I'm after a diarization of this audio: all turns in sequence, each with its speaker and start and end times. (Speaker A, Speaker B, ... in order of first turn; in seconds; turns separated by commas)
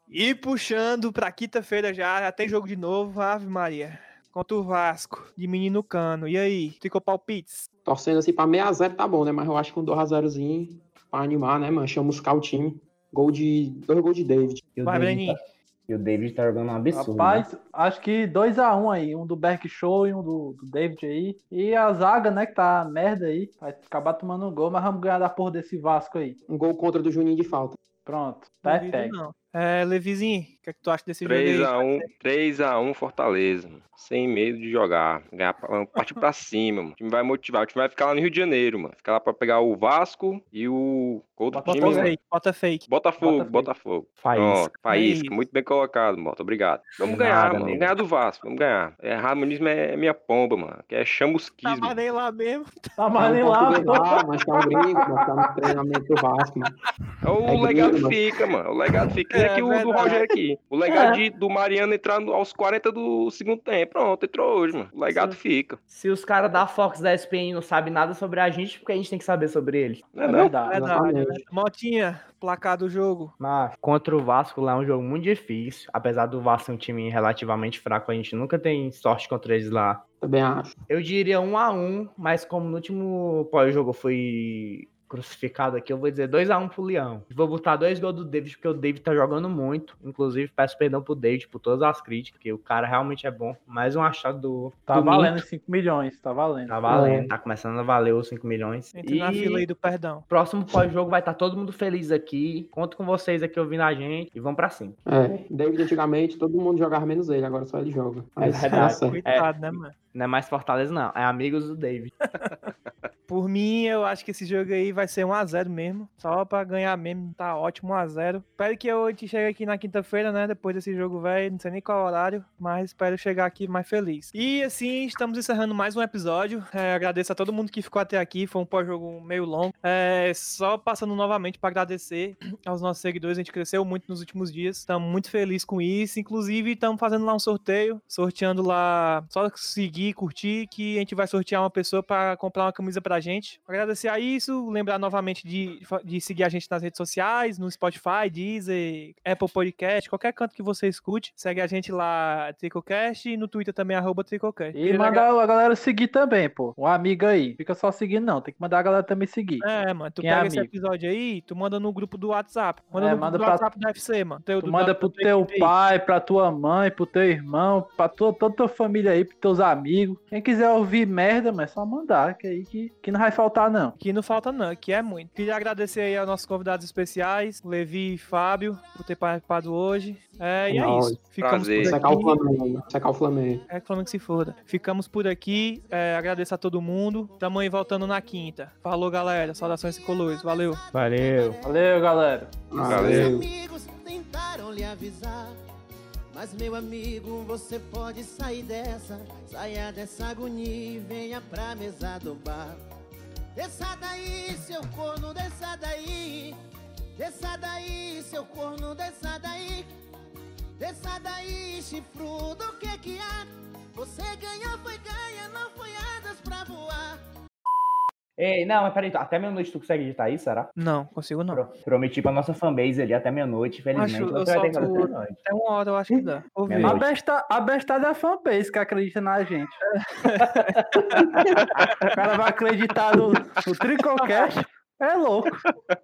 Speaker A: 0.1-7.7, Speaker B: 7.8-14.6, Speaker C: 14.8-17.4, Speaker A: 14.8-15.4, Speaker D: 16.9-26.4, Speaker B: 26.5-27.8, Speaker D: 28.0-29.1, Speaker A: 28.6-32.1, Speaker E: 31.2-42.1, Speaker D: 41.5-42.1, Speaker A: 41.6-42.9, Speaker E: 42.9-52.0, Speaker D: 43.2-43.7, Speaker C: 44.2-44.7, Speaker A: 44.9-45.3, Speaker C: 47.0-47.9, Speaker A: 51.6-52.9, Speaker D: 53.0-55.2, Speaker B: 53.2-56.7, Speaker E: 57.2-65.8, Speaker C: 57.5-58.0, Speaker B: 57.5-58.3, Speaker A: 59.3-60.2, Speaker C: 60.9-61.2, Speaker C: 65.1-65.4, Speaker C: 65.9-70.1, Speaker E: 70.1-70.5, Speaker D: 70.3-70.8, Speaker B: 70.3-71.4, Speaker A: 70.6-73.3, Speaker C: 73.4-80.0, Speaker B: 80.2-80.7, Speaker C: 80.9-95.4, Speaker D: 94.9-96.9, Speaker C: 96.7-99.7, Speaker B: 96.9-97.3, Speaker A: 98.9-100.2, Speaker C: 100.3-105.0, Speaker B: 105.1-109.2, Speaker C: 108.4-109.5, Speaker A: 108.7-109.9, Speaker C: 110.1-112.1, Speaker A: 113.3-155.3, Speaker D: 154.7-159.6, Speaker A: 159.6-165.7, Speaker D: 160.2-160.7, Speaker D: 162.9-163.7, Speaker D: 164.6-173.9, Speaker A: 174.0-182.4, Speaker F: 180.1-180.8, Speaker B: 180.7-181.2, Speaker E: 181.4-182.0, Speaker B: 181.8-183.6, Speaker F: 183.6-185.0, Speaker A: 183.7-190.8, Speaker F: 185.7-186.3, Speaker F: 189.2-195.5, Speaker C: 190.9-191.6, Speaker D: 191.6-192.5, Speaker B: 192.7-193.4, Speaker E: 192.8-193.3, Speaker F: 196.3-202.8, Speaker F: 203.5-206.6, Speaker F: 207.2-209.9, Speaker F: 210.8-217.2, Speaker C: 218.4-220.7, Speaker A: 220.8-221.6, Speaker C: 221.5-225.3, Speaker A: 223.9-226.9, Speaker C: 226.7-227.1, Speaker D: 226.8-229.8, Speaker A: 230.2-231.2, Speaker D: 232.1-235.6